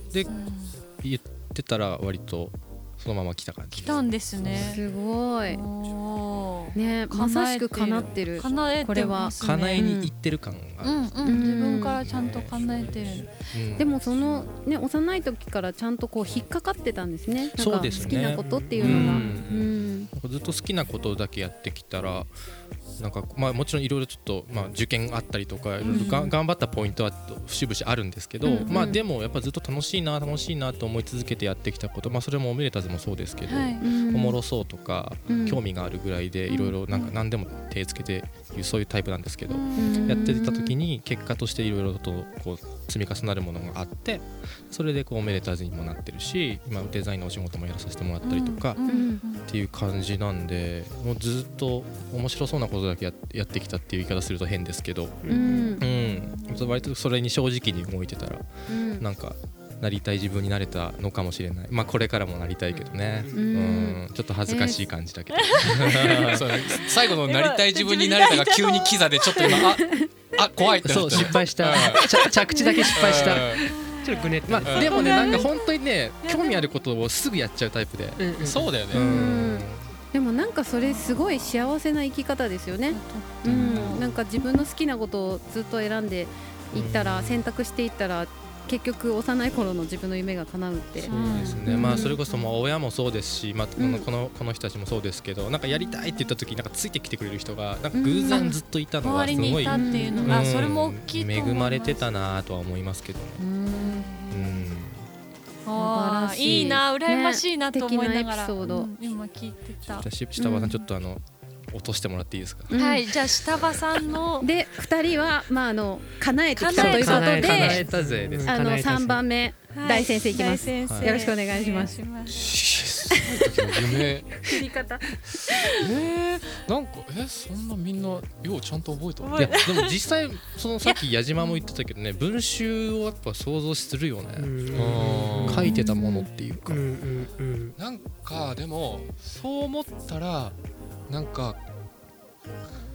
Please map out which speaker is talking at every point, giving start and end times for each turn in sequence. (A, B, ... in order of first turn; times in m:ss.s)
0:00.3-0:00.8 A
0:01.0-0:04.8 B
0:03.7-0:04.8 A
0:04.5-0:05.6 C
0:05.4-0:09.9 A
0:06.7-0:10.1 C
0:09.4-0:11.4 B
0:10.8-0:13.3 A
0:11.2-0:12.0 C
0:12.0-0:13.9 B
0:13.8-0:20.1 C
0:17.5-0:22.3 B
0:18.1-0:19.4 D
0:23.0-1:06.6 B
0:25.8-0:26.3 A
0:25.9-0:26.3 C
0:28.4-0:29.0 C
0:33.5-0:33.8 A
0:33.8-0:34.4 C
0:35.3-0:35.6 C
0:39.5-0:40.3 A
0:39.8-0:40.7 C
0:48.2-0:49.4 A
0:48.8-0:49.2 C
0:55.2-0:55.8 D
0:55.3-0:55.9 C
0:56.1-0:56.7 A
0:58.7-0:59.0 C
1:02.7-1:03.4 D
1:03.3-1:04.8 C
1:05.4-1:09.7 A
1:06.1-1:12.2 E
1:09.4-1:10.1 C
1:10.8-1:13.6 B
1:12.0-1:12.3 A
1:12.5-1:12.9 C
1:12.9-1:13.6 E
1:13.6-1:15.6 A
1:14.0-1:15.4 D
1:14.5-1:19.9 B
1:14.6-1:15.0 E
1:15.1-1:15.4 C
1:16.2-1:16.6 A
1:18.2-1:18.7 D
1:18.4-1:19.2 E
1:18.9-1:32.2 C
1:20.8-1:21.7 A
1:22.9-1:24.6 A
1:23.4-1:24.0 B
1:26.7-1:27.5 B
1:31.0-1:32.5 A
1:31.1-1:43.4 B
1:31.1-1:31.6 D
1:33.8-1:34.0 C
1:37.9-1:38.6 C
1:38.3-1:42.0 A
1:39.4-1:40.5 C
1:43.4-1:44.1 C
1:43.7-1:44.6 A
1:44.3-1:45.1 B
1:45.6-1:50.1 A
1:45.7-1:48.9 C
1:50.0-1:52.8 B
1:50.4-1:50.8 C
1:52.7-1:53.1 C
1:52.7-1:54.5 A
1:54.4-1:57.9 C
1:56.6-1:57.8 A
1:56.7-1:59.2 D
1:57.4-1:58.6 B
1:58.4-2:02.0 C
1:59.7-2:02.4 A
2:00.8-2:01.2 B
2:02.3-2:04.5 E
2:03.1-2:05.9 C
2:05.6-2:09.6 E
2:09.2-2:10.0 A
2:09.4-2:16.8 B
2:10.8-2:11.6 A
2:14.4-2:15.8 D
2:14.7-2:15.7 E
2:15.7-2:16.3 C
2:16.6-2:17.8 D
2:17.8-2:20.6 E
2:21.1-2:21.6 E